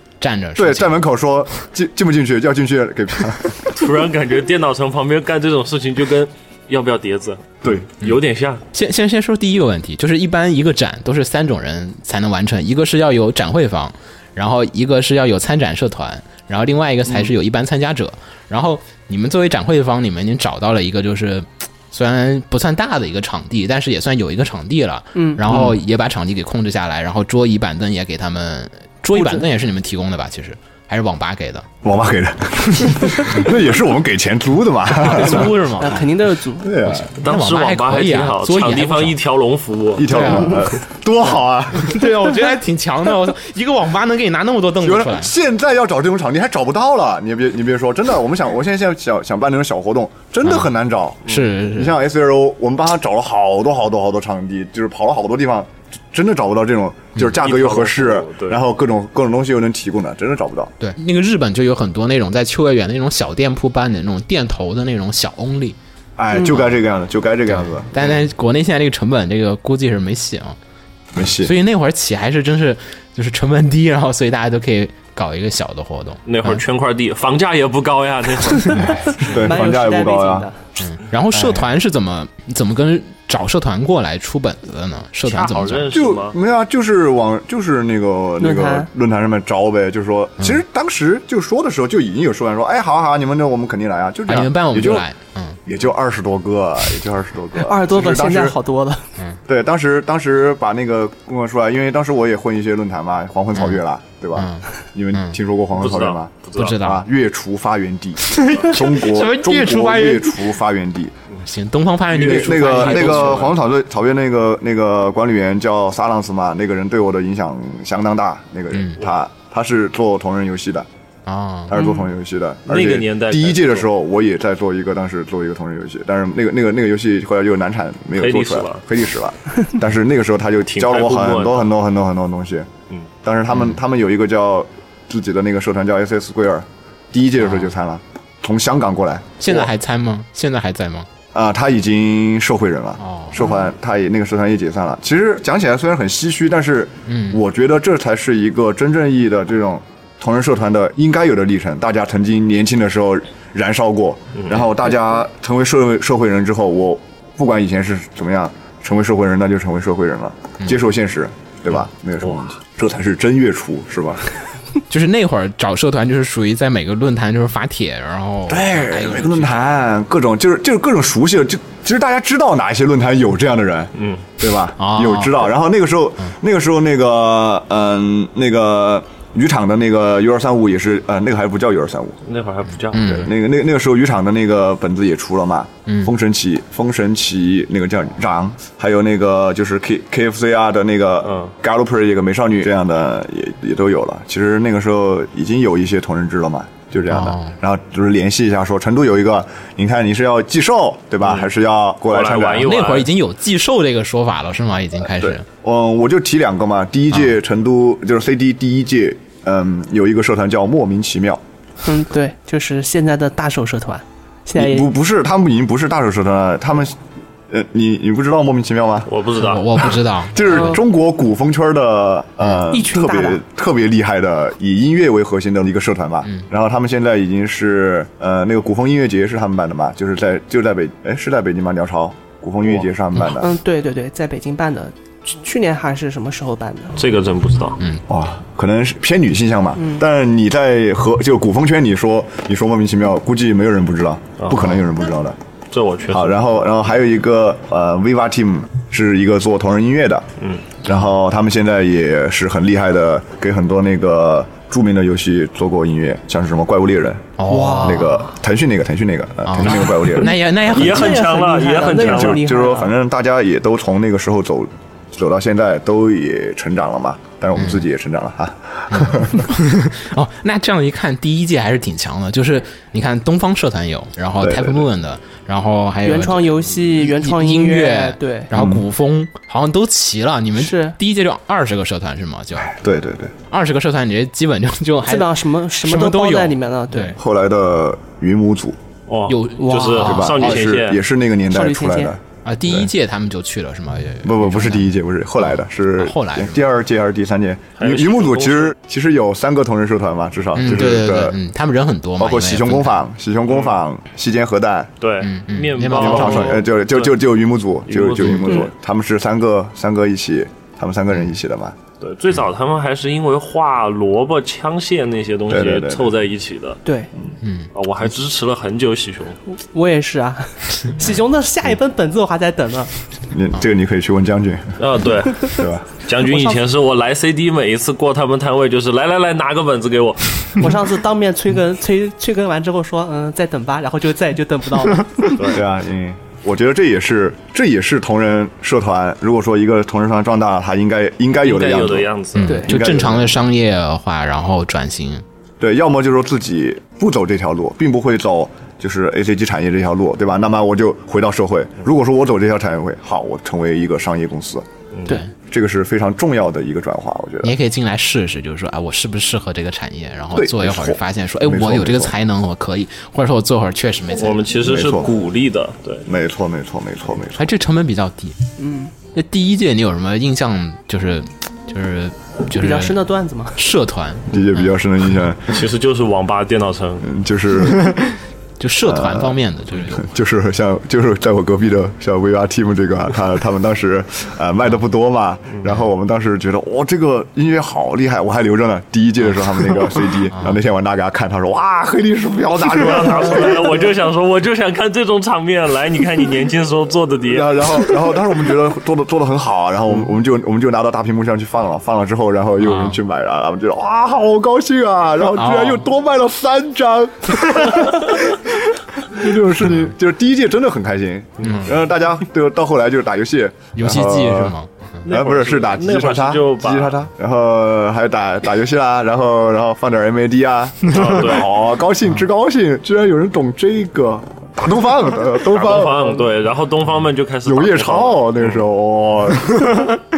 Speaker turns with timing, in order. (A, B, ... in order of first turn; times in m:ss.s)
0:00.2-0:01.0 A
0:00.6-0:03.7 B
0:03.7-0:08.6 C
0:08.7-0:31.6 A
0:25.1-0:25.4 D
0:25.5-0:25.8 B
0:29.1-0:29.4 D
0:31.8-0:35.6 B
0:35.0-0:36.1 A
0:35.1-0:36.8 D
0:36.6-0:37.1 B
0:36.8-0:39.2 A
0:37.2-0:40.4 C
0:40.0-0:42.1 B
0:40.1-0:40.6 A
0:41.7-0:45.3 A
0:44.8-1:00.8 B
0:50.4-0:50.7 A
0:51.3-0:52.0 A
0:57.4-0:58.6 C
1:00.8-1:05.8 A
1:06.2-1:08.0 B
1:07.5-1:10.6 A
1:11.1-1:11.5 B
1:11.4-1:16.6 A
1:16.3-1:19.0 C
1:18.7-1:20.6 D
1:18.9-1:19.4 A
1:19.2-1:20.5 B
1:20.8-1:25.9 A
1:25.3-1:26.4 C
1:25.9-1:35.1 B
1:28.4-1:28.9 D
1:34.3-1:35.6 A
1:35.6-1:38.6 B
1:37.6-1:39.1 D
1:39.5-1:51.1 B
1:44.4-1:45.4 A
1:45.8-1:46.8 C
1:46.6-1:47.0 A
1:48.3-1:50.4 A
1:51.4-1:53.5 A
1:52.1-1:53.5 C
1:52.1-2:00.9 B
1:58.7-1:59.0 A
2:01.3-2:01.7 A
2:01.7-2:12.7 B
2:01.8-2:02.1 D
2:02.7-2:03.9 C
2:08.1-2:08.8 C
2:10.7-2:11.7 C
2:13.2-2:19.7 B
2:13.5-2:13.8 A
2:17.4-2:17.7 A
2:19.4-2:21.1 A
2:21.3-2:44.3 B
2:23.0-2:23.4 A
2:27.1-2:27.4 A
2:34.4-2:34.6 C
2:44.9-2:49.6 A
2:48.5-3:02.2 B
2:54.0-2:54.2 C
2:54.8-2:55.5 A
3:02.3-3:03.3 C
3:02.9-3:03.3 A
3:02.9-3:22.8 B
3:05.9-3:06.1 A
3:11.2-3:11.5 C
3:17.1-3:17.6 A
3:21.2-3:21.5 C
3:22.1-3:23.1 C
3:22.6-3:25.4 A
3:25.1-3:31.4 B
3:31.8-3:34.9 D
3:34.6-3:37.0 B
3:37.5-3:39.1 B
3:39.1-3:39.8 C
3:39.4-3:40.8 A
3:39.8-3:53.5 B
3:40.4-3:40.8 D
3:42.7-3:43.4 D
3:53.3-3:57.0 D
3:57.0-3:57.8 C
3:58.1-4:05.4 B
3:59.8-4:00.0 D
4:04.4-4:04.8 C
4:05.7-4:06.5 C
4:06.1-4:10.3 B
4:10.4-4:10.6 C
4:10.8-4:20.4 B
4:17.4-4:18.1 A
4:17.4-4:18.3 D
4:19.4-4:21.3 A
4:20.7-4:22.5 C
4:20.7-4:22.9 D
4:21.9-4:29.5 B
4:27.6-4:27.8 A
4:28.9-4:42.7 A
4:34.4-4:34.9 B
4:36.0-4:38.5 D
4:38.5-4:38.8 B
4:40.6-4:41.0 D
4:42.6-4:43.3 B
4:43.5-4:47.2 A
4:45.0-4:47.2 D
4:47.2-4:48.8 B
4:49.1-4:51.0 C
4:49.3-4:50.5 A
4:49.6-4:50.1 D
4:50.0-4:52.9 B
4:51.5-4:52.1 D
4:52.4-4:54.9 A
4:54.2-5:01.4 B
4:55.4-4:56.6 A
4:57.8-4:58.8 C
5:00.6-5:03.0 A
5:02.2-5:04.9 B
5:03.5-5:03.8 C
5:05.0-5:07.2 C
5:05.2-5:06.6 A
5:05.9-5:11.8 B
5:07.9-5:08.7 C
5:12.0-5:16.8 C
5:15.5-5:16.1 B
5:16.8-5:17.1 D
5:17.4-5:17.7 A
5:17.8-5:19.4 C
5:19.5-5:22.9 D
5:23.3-5:24.8 B
5:24.8-5:30.6 C
5:25.5-5:25.9 B
5:26.3-5:26.6 D
5:30.6-5:35.4 D
5:35.4-5:35.6 C
5:35.5-5:42.1 B
5:41.4-5:42.6 C
5:42.4-5:45.2 A
5:42.4-5:42.7 D
5:42.6-5:43.4 B
5:45.6-5:54.6 B
5:55.4-5:57.6 B
5:57.4-6:04.4 A
6:00.3-6:02.1 B
6:04.2-6:06.1 C
6:04.6-6:05.1 B
6:06.1-6:07.5 B
6:07.4-6:08.4 A
6:08.6-6:08.9 D
6:09.1-6:13.0 A
6:12.5-6:13.6 D
6:13.6-6:14.7 A
6:14.3-6:15.6 B
6:15.5-6:17.1 C
6:17.0-6:18.0 B
6:18.6-6:20.1 A
6:18.8-6:33.9 B
6:30.3-6:30.6 A
6:32.6-6:37.7 C
6:37.3-7:06.3 B
6:42.6-6:43.0 A
6:45.4-6:45.9 A
6:51.4-6:51.7 A
6:53.8-6:55.0 A
6:55.0-6:57.0 C
7:00.9-7:01.6 C
7:05.4-7:08.6 C
7:07.4-7:09.9 B